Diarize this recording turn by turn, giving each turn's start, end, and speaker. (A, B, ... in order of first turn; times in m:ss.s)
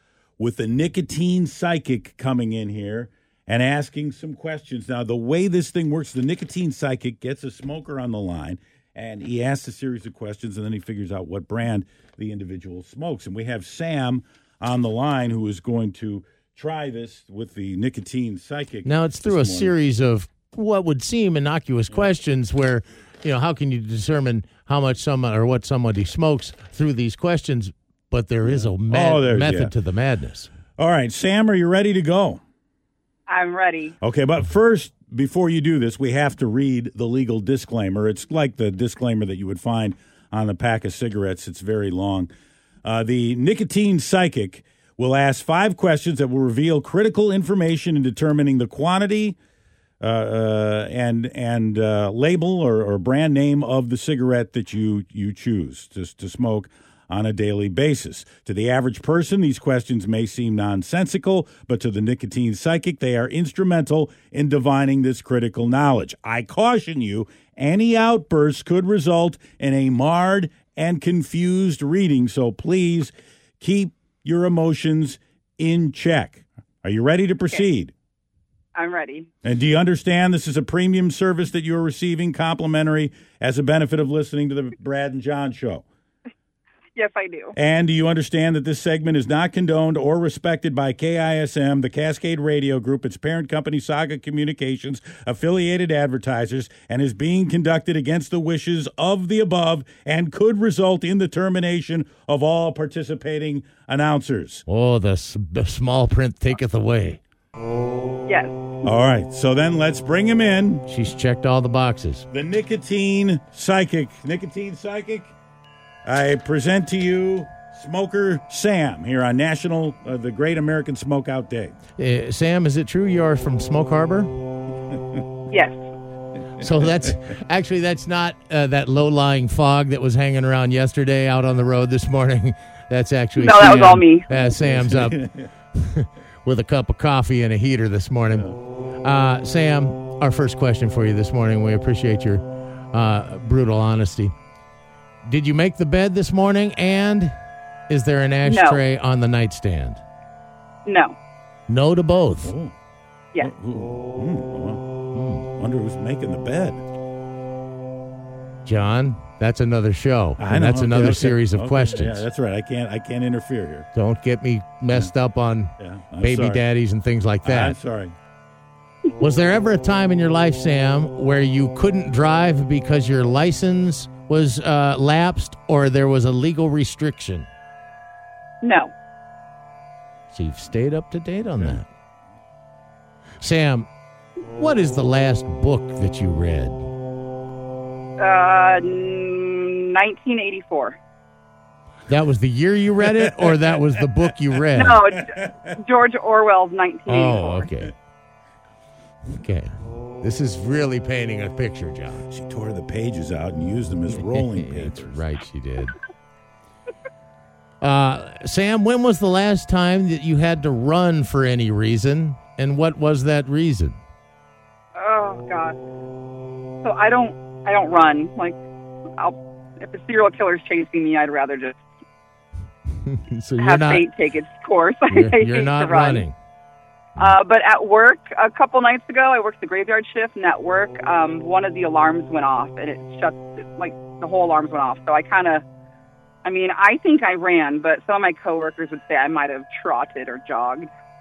0:00.4-0:19.7 A
0:18.8-0:30.5 B
0:28.5-0:29.7 A
0:30.8-0:32.4 A
0:33.3-0:34.0 C
0:34.0-0:42.3 A
0:42.8-0:49.4 A
0:50.0-1:17.9 A
1:18.7-1:19.3 C
1:19.4-1:25.8 A
1:27.0-1:27.6 C
1:27.5-1:44.6 A
1:44.7-1:47.2 B
1:48.3-1:48.6 C
1:48.8-1:50.8 A
1:50.9-1:52.2 B
1:52.3-1:55.3 A
1:56.0-2:01.8 A
2:02.0-2:04.3 B
2:05.5-2:05.7 C
2:06.6-2:15.2 B
2:13.4-2:14.3 C
2:14.6-2:15.5 A
2:15.7-2:18.5 B
2:19.0-2:24.3 B
2:25.2-2:27.3 B
2:27.9-2:30.0 B
2:28.4-2:28.8 C
2:30.8-2:31.1 C
2:31.7-2:32.5 B
2:32.4-2:32.7 A
2:33.4-2:34.8 A
2:35.1-2:35.5 B
2:35.6-2:36.8 A
2:38.6-2:42.2 B
2:40.4-2:43.9 A
2:43.9-2:47.8 B
2:45.8-2:46.6 A
2:47.4-2:48.1 A
2:49.2-2:57.5 B
2:58.6-2:58.9 C
3:00.3-3:01.8 B
3:03.4-3:03.9 B
3:04.4-3:06.8 B
3:08.2-3:11.0 C
3:12.1-3:15.0 B
3:13.2-3:13.6 A
3:14.7-3:17.7 C
3:15.3-3:15.7 A
3:17.1-3:17.9 B
3:19.3-3:22.2 B
3:22.3-3:25.2 A
3:24.1-3:26.0 B
3:27.8-3:34.0 B
3:35.0-3:35.8 C
3:36.8-3:38.6 C
3:39.2-3:41.8 C
3:43.0-3:44.1 B
3:43.6-3:46.2 C
3:45.1-3:46.3 B
3:47.2-3:55.6 C
3:56.4-4:00.9 C